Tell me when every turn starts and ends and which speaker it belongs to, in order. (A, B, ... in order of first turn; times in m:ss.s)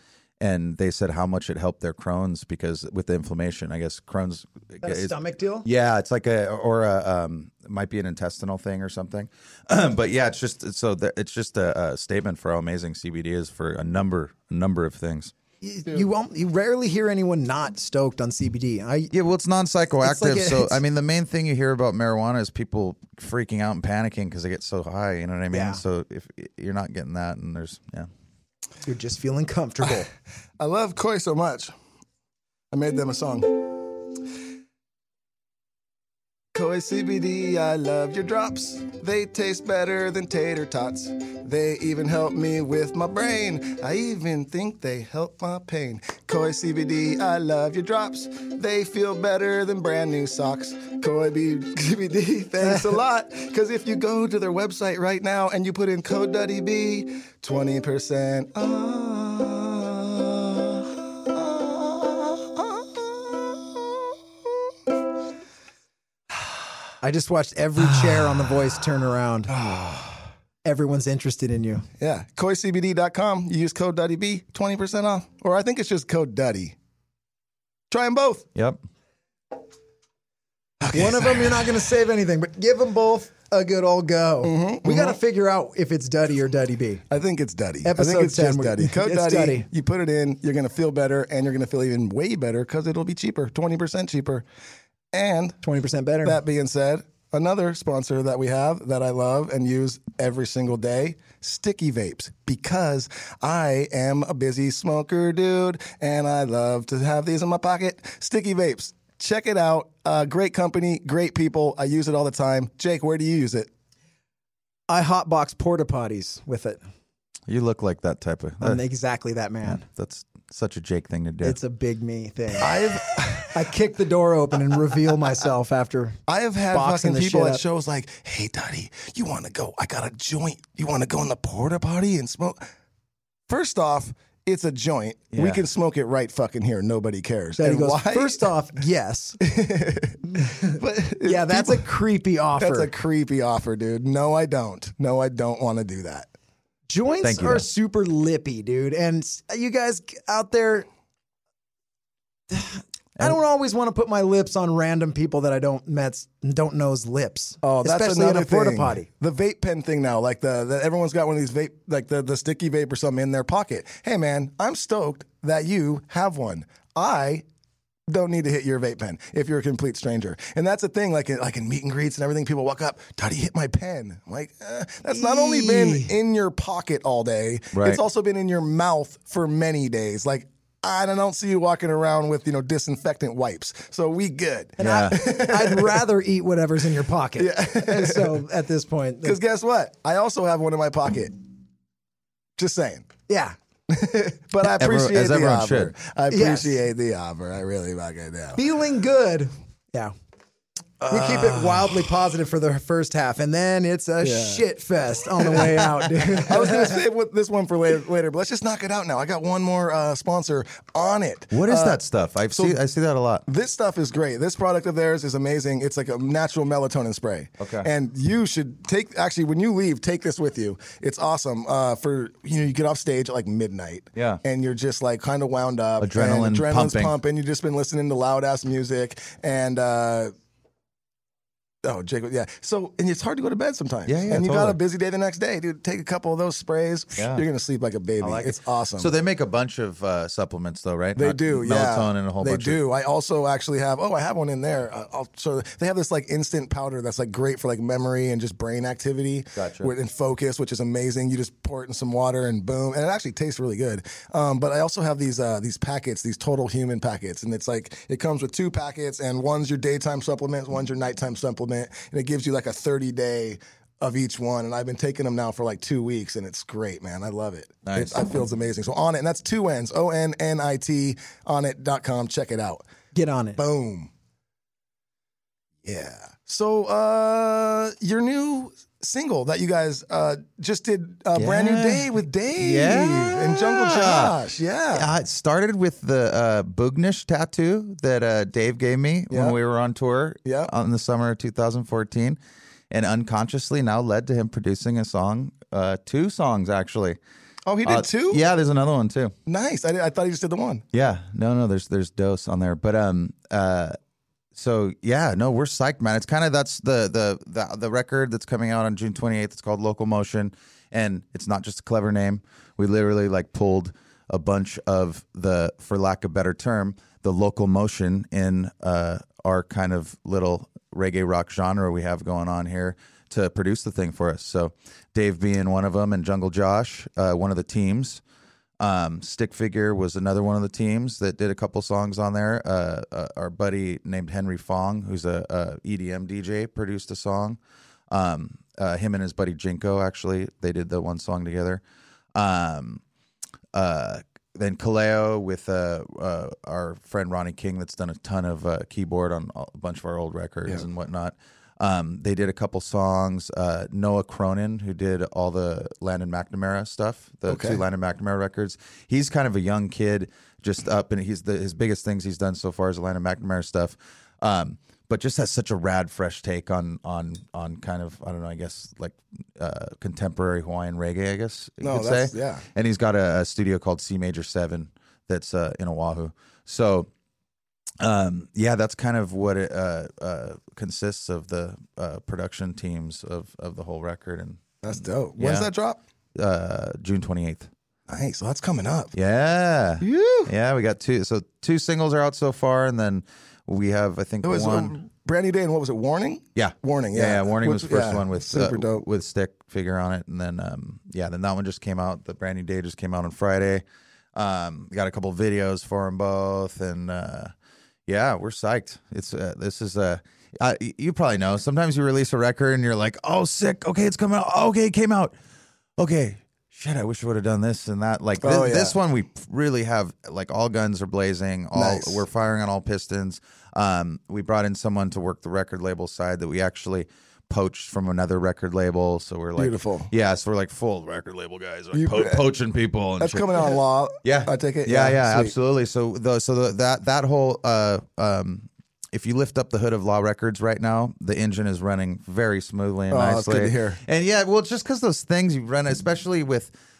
0:00.4-0:15.3 A
0:04.8-0:05.6 B
0:15.6-0:19.1 B
0:19.1-0:28.1 A
0:20.0-0:20.8 B
0:25.5-0:25.8 B
0:28.8-0:30.1 B
0:30.6-0:31.7 C
0:32.7-0:34.0 C
0:36.5-1:04.6 C
1:07.0-1:09.5 B
1:09.5-1:10.2 C
1:10.6-1:11.8 B
1:12.0-1:16.8 C
1:17.9-1:18.5 C
1:20.8-1:21.7 C
1:20.9-1:27.0 B
1:24.4-1:25.2 C
1:27.1-1:34.4 C
1:27.8-1:29.7 B
1:35.1-1:35.6 C
1:35.6-1:36.4 B
1:36.2-1:53.7 C
1:54.9-1:56.8 B
1:57.5-1:58.8 A
1:58.6-1:59.8 B
1:59.6-2:01.6 A
2:01.4-2:02.7 B
2:02.6-2:03.5 C
2:03.5-2:06.2 B
2:06.3-2:12.6 C
2:06.7-2:07.6 B
2:13.5-2:18.5 C
2:15.3-2:15.6 A
2:17.6-2:19.4 B
2:19.4-2:21.9 C
2:20.4-2:22.9 B
2:22.6-2:26.3 C
2:26.9-2:30.9 B
2:27.2-2:27.6 A
2:32.5-2:39.1 B
2:37.6-2:47.4 C
2:48.1-3:06.0 C
2:55.1-2:56.1 B
2:57.7-2:58.0 A
3:04.8-3:09.4 B
3:04.8-3:05.2 A
3:07.4-3:08.4 C
3:09.2-3:11.3 C
3:12.6-3:13.1 C
3:13.3-3:13.6 B
3:13.9-3:18.6 C
3:14.6-3:16.0 A
3:16.3-3:16.8 B
3:18.5-3:20.1 B
3:21.0-3:22.0 C
3:21.1-3:26.9 B
3:24.2-3:24.6 C
3:25.4-3:25.8 C
3:26.4-3:32.0 C
3:31.5-3:33.4 A
3:32.5-3:32.8 C
3:33.5-3:50.3 C
3:37.6-3:37.9 A
3:44.1-3:44.4 A
3:46.0-3:47.2 A
3:51.8-3:59.1 C
3:54.0-3:54.8 A
3:57.2-3:57.4 A
3:58.2-4:02.8 A
4:01.2-4:32.9 C
4:09.6-4:09.9 A
4:27.8-4:28.4 A
4:33.1-4:33.6 B
4:33.6-4:34.1 C
4:35.8-4:45.1 C
4:41.4-4:44.4 A
4:44.9-4:52.4 A
4:49.3-4:49.6 C
4:50.4-4:50.7 C
4:52.9-4:57.2 A
4:57.6-4:58.4 C
4:57.8-4:59.3 A
4:59.5-5:00.8 C
5:00.9-5:04.0 A
5:04.5-5:28.2 A
5:28.8-5:37.6 A
5:38.1-5:41.8 A
5:42.3-5:43.0 A
5:43.7-6:17.1 A
5:57.5-5:57.8 C
6:11.8-6:12.6 C
6:18.0-6:25.7 A
6:24.8-6:26.0 C
6:26.4-6:27.7 A
6:28.1-6:29.1 C
6:29.1-6:35.0 A
6:30.0-6:30.5 C
6:34.4-6:39.0 C
6:36.5-6:43.8 A
6:44.3-6:47.5 A
6:48.1-6:55.3 A
6:56.0-7:13.6 A
6:58.4-6:59.0 C
7:01.7-7:02.2 C
7:09.6-7:10.1 C
7:11.9-7:12.4 C
7:13.2-7:15.5 C
7:14.2-7:26.7 A
7:23.1-7:24.0 C